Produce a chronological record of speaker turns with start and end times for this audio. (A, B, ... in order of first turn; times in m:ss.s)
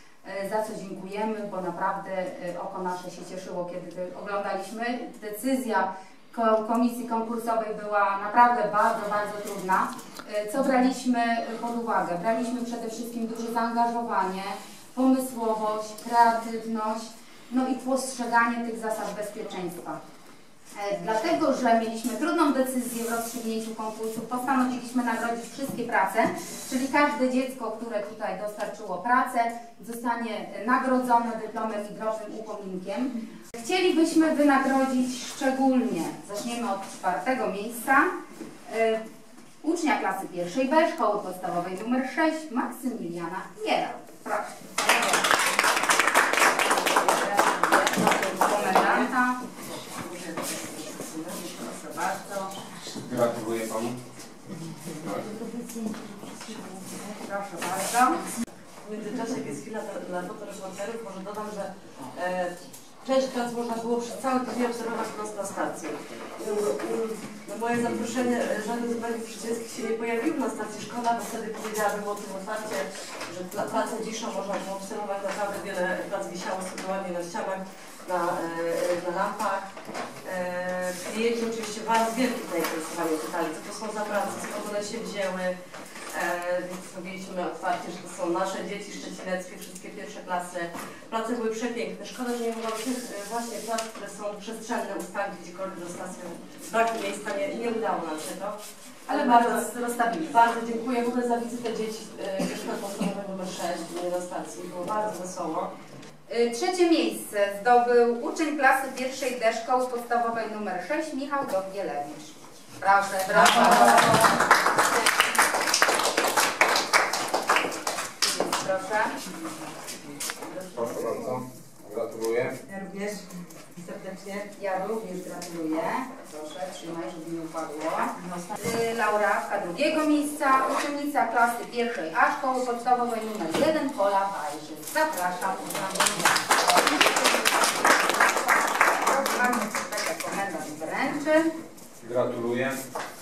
0:00.2-0:20.0 A
0:20.7-0:38.1 A
0:38.6-0:39.0 A
0:39.6-0:45.3 A
0:46.9-0:49.4 A
0:47.8-0:49.1 B
0:49.7-0:51.6 B
0:51.4-0:52.5 A
0:52.9-0:54.0 C
0:54.9-0:55.3 C
0:56.2-0:56.6 B
0:56.8-0:58.2 A
0:58.8-1:19.7 B
1:20.2-1:25.6 B
1:26.1-1:38.6 B
1:39.1-1:40.4 A
1:39.1-1:39.6 B
1:40.3-1:45.7 B
1:46.3-1:54.3 A
1:53.6-1:54.1 B
1:58.2-1:59.2 A
2:00.4-2:01.2 B
2:00.7-2:02.6 C
2:02.7-2:03.2 B
2:03.8-2:04.4 B
2:04.6-2:21.5 A
2:22.0-2:22.8 C